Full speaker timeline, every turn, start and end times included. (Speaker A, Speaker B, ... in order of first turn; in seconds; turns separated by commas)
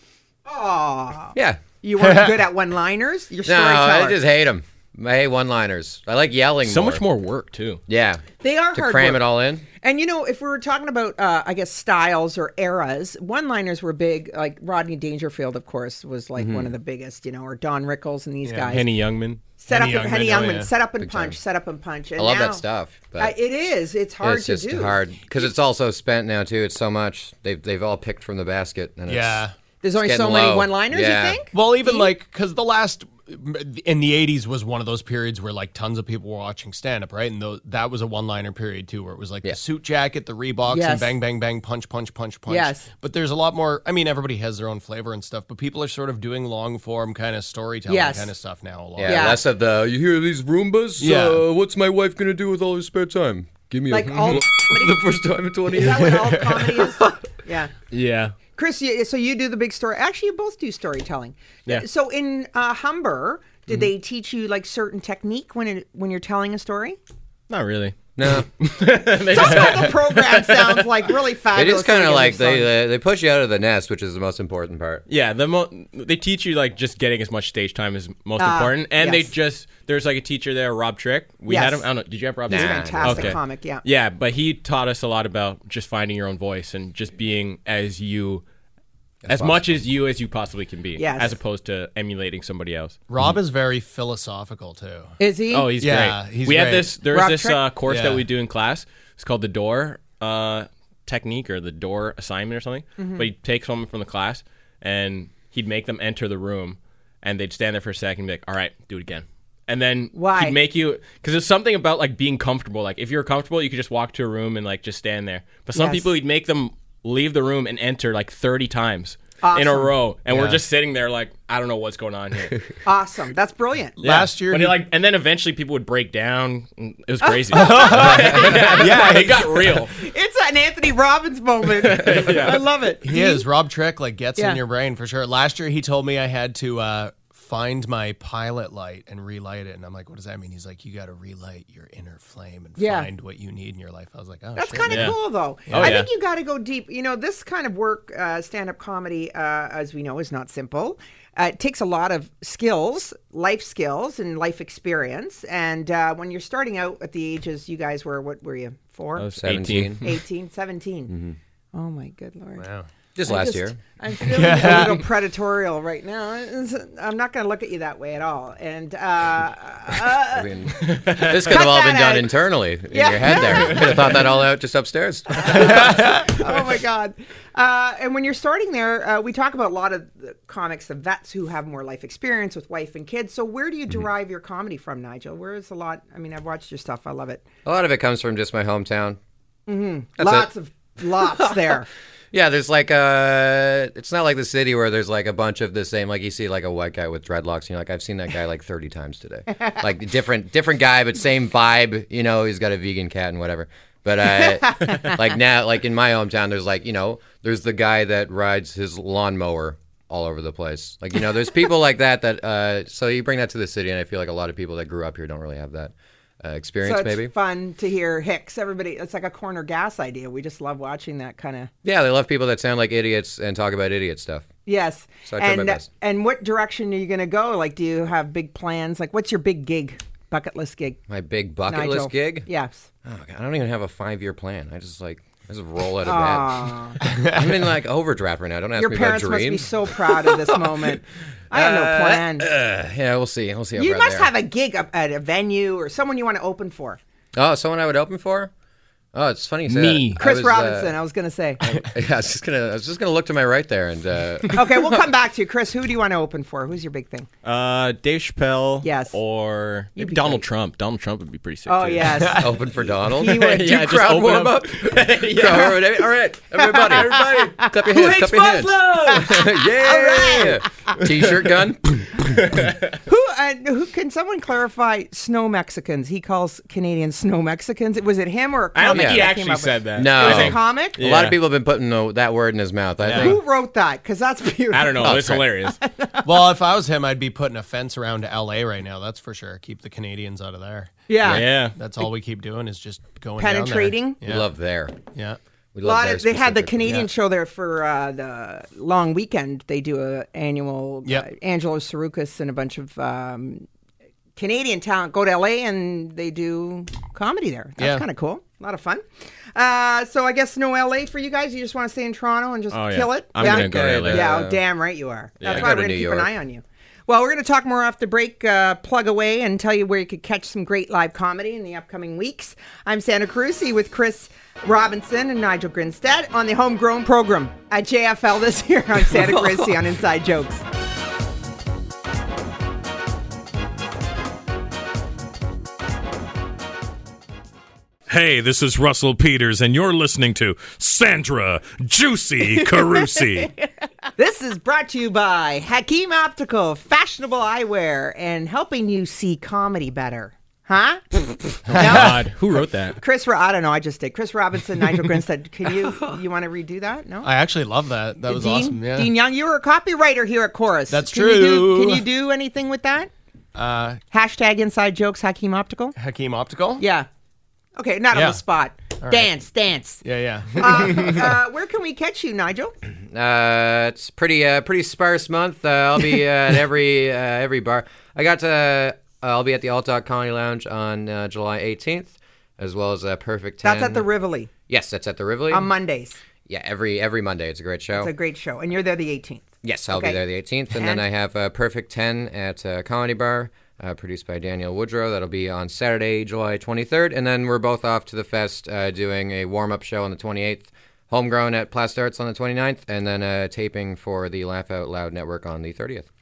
Speaker A: 0.5-4.2, Speaker B: 1.4-1.6, Speaker C: 2.0-2.3, Speaker B: 3.5-7.0, Speaker D: 6.7-7.8, Speaker B: 7.9-9.7, Speaker A: 8.4-18.9, Speaker B: 16.4-16.7, Speaker C: 18.4-18.8, Speaker D: 18.7-19.4, Speaker A: 19.6-22.6, Speaker C: 19.7-20.7, Speaker B: 21.0-21.4, Speaker B: 22.2-23.4, Speaker A: 23.2-25.5, Speaker B: 24.2-29.4, Speaker C: 29.1-29.5, Speaker A: 29.8-32.1, Speaker B: 30.0-31.4, Speaker C: 31.5-49.3, Speaker A: 40.7-41.1, Speaker A: 42.5-42.9, Speaker A: 47.9-48.3, Speaker B: 49.0-56.4, Speaker A: 49.0-49.4, Speaker C: 51.0-51.4, Speaker A: 53.9-55.0, Speaker A: 55.7-57.7, Speaker C: 56.0-56.8, Speaker D: 57.9-58.4, Speaker A: 58.5-67.0, Speaker D: 67.5-70.9, Speaker B: 68.2-68.5, Speaker A: 69.3-72.7, Speaker B: 71.5-75.1, Speaker D: 75.1-88.4, Speaker A: 78.4-79.3, Speaker A: 81.5-81.9, Speaker B: 82.5-83.4, Speaker A: 82.5-83.8, Speaker B: 89.2-89.7, Speaker D: 89.3-93.0, Speaker A: 91.0-91.3, Speaker C: 93.1-95.1, Speaker A: 95.2-95.7, Speaker D: 95.5-122.6, Speaker C: 95.8-96.9, Speaker A: 97.1-97.6, Speaker C: 97.9-98.2, Speaker A: 103.0-103.3, Speaker A: 110.1-110.6, Speaker A: 115.8-116.1, Speaker A: 119.4-119.9, Speaker C: 120.3-120.6, Speaker A: 122.8-124.0, Speaker C: 124.0-124.8, Speaker D: 124.0-129.9, Speaker A: 127.2-129.2, Speaker C: 127.5-129.8, Speaker A: 130.0-133.5, Speaker D: 131.8-132.6, Speaker C: 133.0-145.2, Speaker A: 142.8-143.1, Speaker A: 144.6-159.3, Speaker D: 144.9-145.2, Speaker C: 145.7-146.0, Speaker D: 145.7-146.1, Speaker D: 159.2-160.0, Speaker B: 159.4-160.0, Speaker A: 160.0-161.1, Speaker B: 161.1-161.4, Speaker A: 161.7-162.7, Speaker C: 162.6-162.9, Speaker B: 163.2-163.8, Speaker A: 163.2-170.5, Speaker C: 164.2-165.1, Speaker B: 170.3-176.1, Speaker D: 171.1-171.3, Speaker A: 171.2-172.3, Speaker A: 172.9-174.0, Speaker A: 175.4-187.4, Speaker C: 175.9-176.3, Speaker B: 187.7-189.2, Speaker A: 189.7-191.9, Speaker B: 190.2-190.5, Speaker B: 192.3-217.3, Speaker A: 204.6-205.2, Speaker A: 216.8-221.7, Speaker B: 221.8-224.5, Speaker A: 224.7-231.0, Speaker B: 225.3-225.9, Speaker B: 231.1-232.5, Speaker A: 231.7-232.9, Speaker B: 233.0-240.4, Speaker A: 236.1-237.0, Speaker C: 237.0-237.7, Speaker A: 238.8-242.5, Speaker B: 241.5-244.3, Speaker A: 243.8-247.0, Speaker B: 247.3-248.5, Speaker B: 249.1-250.9, Speaker D: 249.7-250.2, Speaker A: 250.2-251.6, Speaker B: 251.6-255.0, Speaker A: 254.5-257.3, Speaker D: 257.4-262.3, Speaker A: 258.8-259.2, Speaker A: 260.0-260.4, Speaker A: 261.7-262.6, Speaker B: 262.4-272.3, Speaker A: 263.1-263.7, Speaker D: 263.2-267.3, Speaker A: 266.6-270.6, Speaker D: 268.6-269.4, Speaker D: 272.2-273.0, Speaker A: 273.1-281.0, Speaker D: 278.7-281.4, Speaker B: 278.9-279.3, Speaker B: 279.9-283.4, Speaker C: 283.0-283.4, Speaker A: 283.1-285.3, Speaker D: 284.7-285.8, Speaker B: 285.0-285.5, Speaker A: 285.8-286.3, Speaker C: 286.2-294.5, Speaker A: 291.1-291.5, Speaker D: 291.2-291.8, Speaker A: 293.4-294.2, Speaker B: 294.2-295.0, Speaker C: 295.1-295.4, Speaker B: 295.7-297.1, Speaker A: 295.8-303.7, Speaker A: 304.4-309.0, Speaker C: 307.8-308.1, Speaker A: 309.6-330.6, Speaker D: 312.7-314.3, Speaker B: 313.4-314.6, Speaker D: 315.4-315.7, Speaker B: 315.4-316.3, Speaker E: 338.1-343.5, Speaker A: 344.2-352.2, Speaker D: 351.7-353.0, Speaker C: 351.7-352.2, Speaker A: 353.0-357.3, Speaker C: 357.2-359.1, Speaker A: 358.3-363.1, Speaker C: 360.9-362.0, Speaker C: 363.6-364.0, Speaker A: 364.1-366.0, Speaker C: 366.0-366.8, Speaker A: 366.8-367.1, Speaker A: 367.8-372.7, Speaker C: 368.1-368.4, Speaker C: 369.0-369.3, Speaker C: 370.0-371.4, Speaker B: 373.1-384.1, Speaker A: 383.6-384.5, Speaker B: 384.7-385.7, Speaker A: 385.5-386.2, Speaker B: 386.5-388.1, Speaker A: 388.0-391.0, Speaker B: 389.6-406.1